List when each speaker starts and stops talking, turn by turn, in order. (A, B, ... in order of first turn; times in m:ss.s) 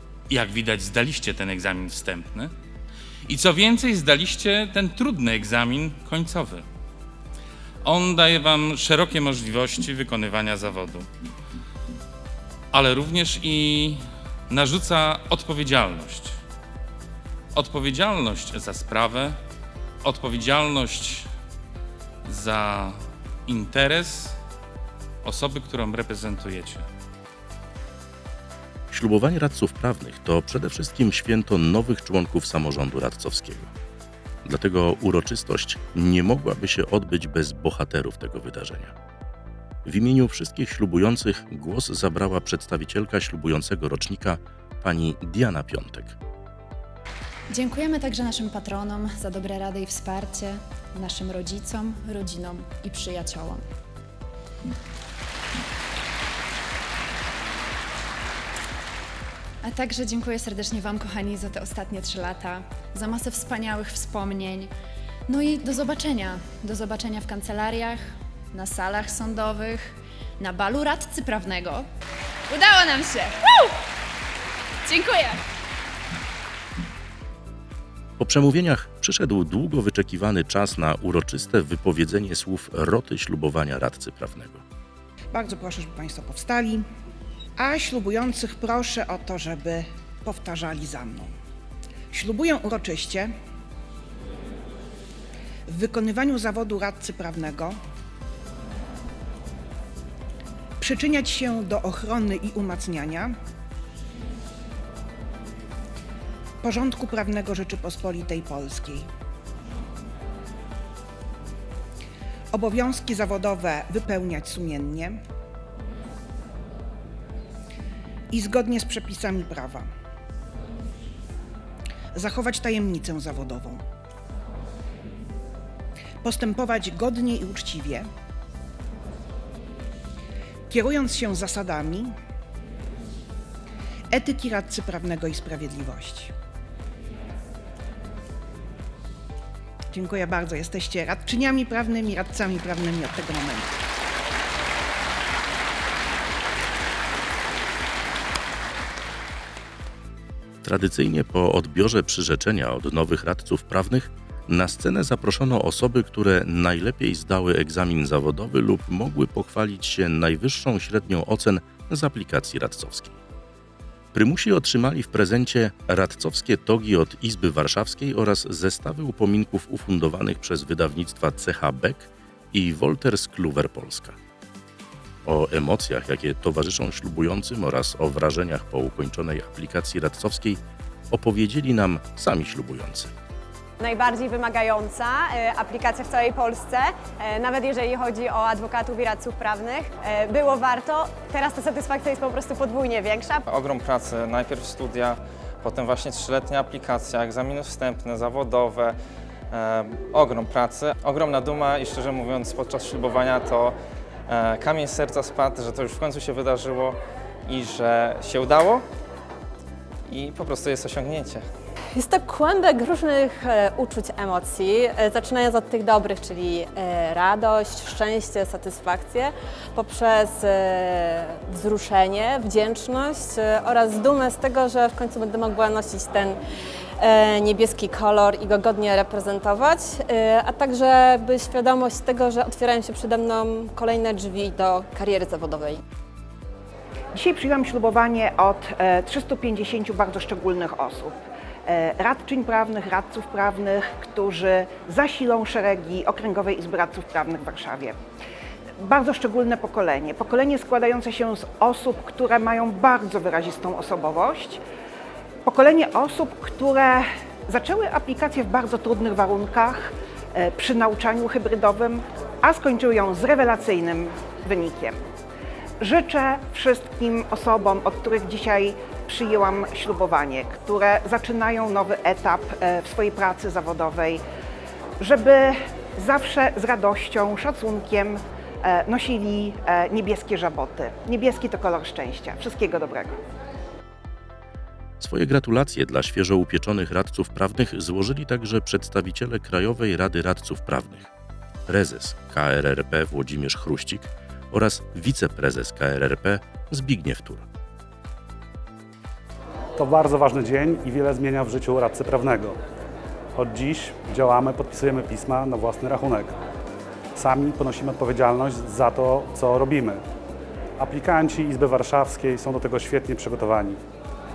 0:00.3-0:02.5 A
0:03.2-0:06.6 A
0:07.8-0:11.1 A
0:12.7-0:16.4 A
0:17.5-0:19.4 A
0:20.0-0:21.3 A
0:22.2-0:24.4 A
0:25.2-0:26.8 A
0:28.9-0:33.7 B
0:34.4-0:38.9 B
0:39.8-0:46.2 B
0:47.5-0:53.6 C
0:59.6-1:04.7 C
1:05.3-1:11.8 C
1:12.5-1:13.4 C
1:14.8-1:15.4 C
1:18.2-1:24.6 B
1:25.3-1:26.8 D
1:27.6-1:31.3 D
1:32.1-1:33.3 D
1:35.7-1:37.8 D
1:40.8-1:43.3 D
1:46.6-1:49.0 D
1:52.5-1:55.2 D
1:58.3-1:59.9 D
2:02.1-2:03.8 D
2:06.2-2:08.1 D
2:10.7-2:12.1 D
2:14.1-2:16.3 D
2:19.9-2:23.7 D
2:30.6-2:43.2 B
2:44.1-2:54.2 B
2:55.2-3:03.1 B
3:03.8-3:13.4 E
3:13.5-3:19.0 F
3:19.5-3:28.9 F
3:30.1-3:31.5 F
3:31.9-3:46.4 G
3:47.0-3:55.8 G
3:57.1-4:08.0 D
4:08.8-4:14.6 D
4:15.4-4:25.0 D
4:25.8-4:34.2 D
4:35.0-4:43.2 D
4:45.0-4:51.1 B
4:51.7-4:57.5 B
4:59.8-5:02.6 H
5:03.3-5:06.4 H
5:07.1-5:10.0 H
5:10.8-5:13.8 H